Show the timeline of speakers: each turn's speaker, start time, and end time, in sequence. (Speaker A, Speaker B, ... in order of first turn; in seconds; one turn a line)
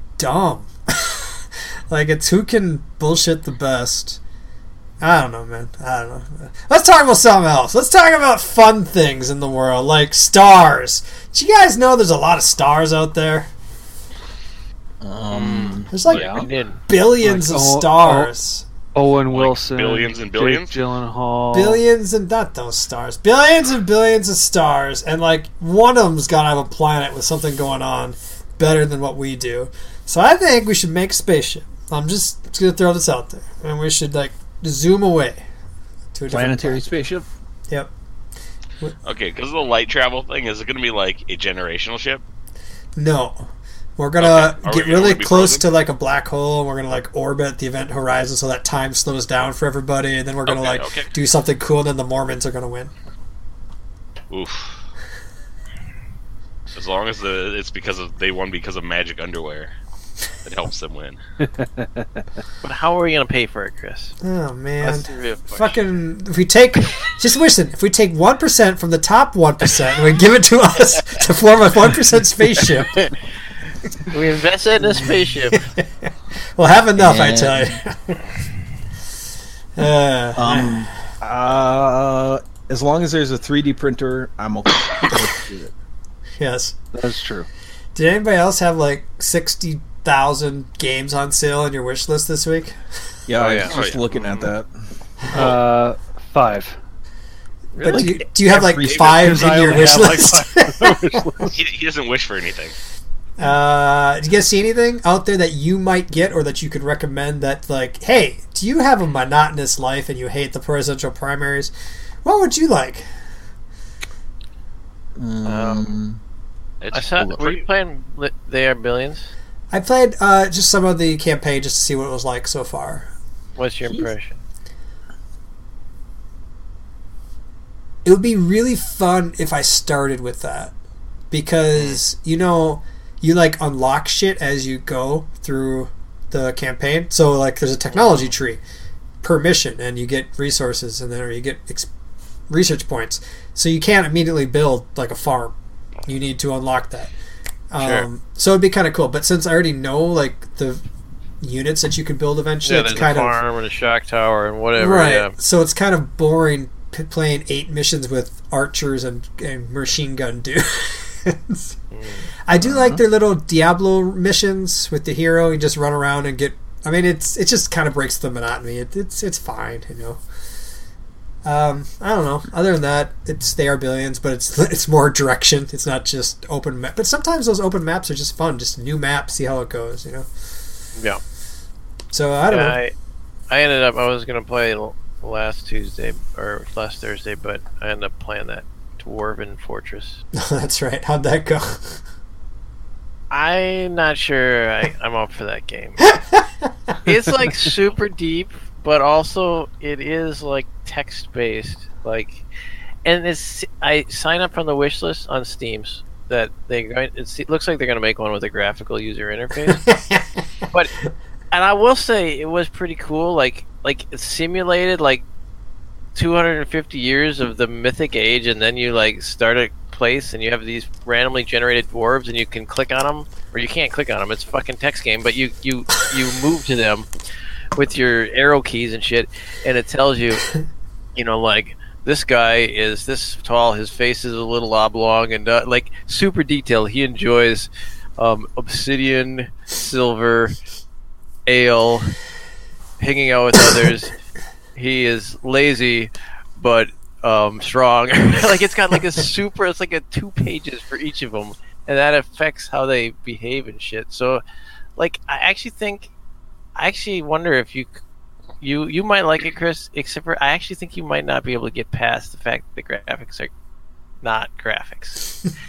Speaker A: 0.2-4.2
Speaker A: 5.0-13.5
Speaker B: 15.0-16.5
Speaker C: 15.3-16.8
Speaker A: 15.9-16.3
Speaker D: 16.1-16.4
Speaker A: 16.9-18.7
Speaker E: 17.2-18.3
Speaker E: 18.9-21.8
Speaker D: 19.3-20.8
Speaker A: 21.5-35.4
Speaker A: 36.1-36.8
Speaker B: 36.3-37.3
Speaker D: 39.0-42.2
Speaker A: 43.0-52.9
Speaker D: 44.2-45.7
Speaker D: 50.5-51.1
Speaker D: 54.3-54.9
Speaker D: 56.7-59.7
Speaker D: 60.4-61.2
Speaker E: 61.4-62.2
Speaker C: 62.6-64.2
Speaker A: 64.2-73.0
Speaker C: 64.8-65.8
Speaker C: 74.0-75.7
Speaker A: 75.0-78.3
Speaker B: 77.0-77.8
Speaker A: 79.8-80.9
Speaker B: 80.4-85.7
Speaker A: 86.4-86.8
Speaker E: 86.9-87.5
Speaker A: 88.0-92.8
Speaker B: 93.3-94.7
Speaker C: 93.4-94.5
Speaker D: 93.7-94.0
Speaker E: 95.3-96.8
Speaker B: 97.8-100.1
Speaker A: 97.8-101.3
Speaker E: 99.0-101.6
Speaker D: 101.5-102.8
Speaker A: 103.4-111.7
Speaker A: 112.2-113.1
Speaker B: 115.2-116.2
Speaker C: 115.5-116.0
Speaker D: 116.8-117.6
Speaker C: 116.9-119.3
Speaker A: 119.7-123.1
Speaker C: 123.6-124.4
Speaker A: 128.1-130.7
Speaker A: 131.3-138.6
Speaker C: 137.9-138.2
Speaker A: 139.2-141.9
Speaker A: 142.5-147.1
Speaker A: 147.7-150.8
Speaker C: 147.8-148.1
Speaker A: 151.4-153.4
Speaker C: 152.6-155.4
Speaker A: 154.8-161.8
Speaker C: 161.9-162.3
Speaker A: 162.5-170.2
Speaker B: 162.6-163.0
Speaker A: 171.4-180.3
Speaker C: 181.0-181.2
Speaker A: 182.1-182.8
Speaker C: 182.5-182.9
Speaker C: 183.5-190.2
Speaker A: 190.3-192.0
Speaker C: 193.3-196.1
Speaker A: 196.2-196.4
Speaker C: 197.1-202.5
Speaker C: 203.1-209.9
Speaker A: 209.7-210.3
Speaker C: 211.5-215.2
Speaker C: 216.2-227.1
Speaker C: 227.8-230.5
Speaker C: 231.2-240.6
Speaker C: 241.5-242.2
Speaker C: 243.0-244.2
Speaker C: 244.8-254.4
Speaker C: 255.0-256.1
Speaker C: 256.8-258.0
Speaker C: 258.6-263.5
Speaker C: 264.2-265.3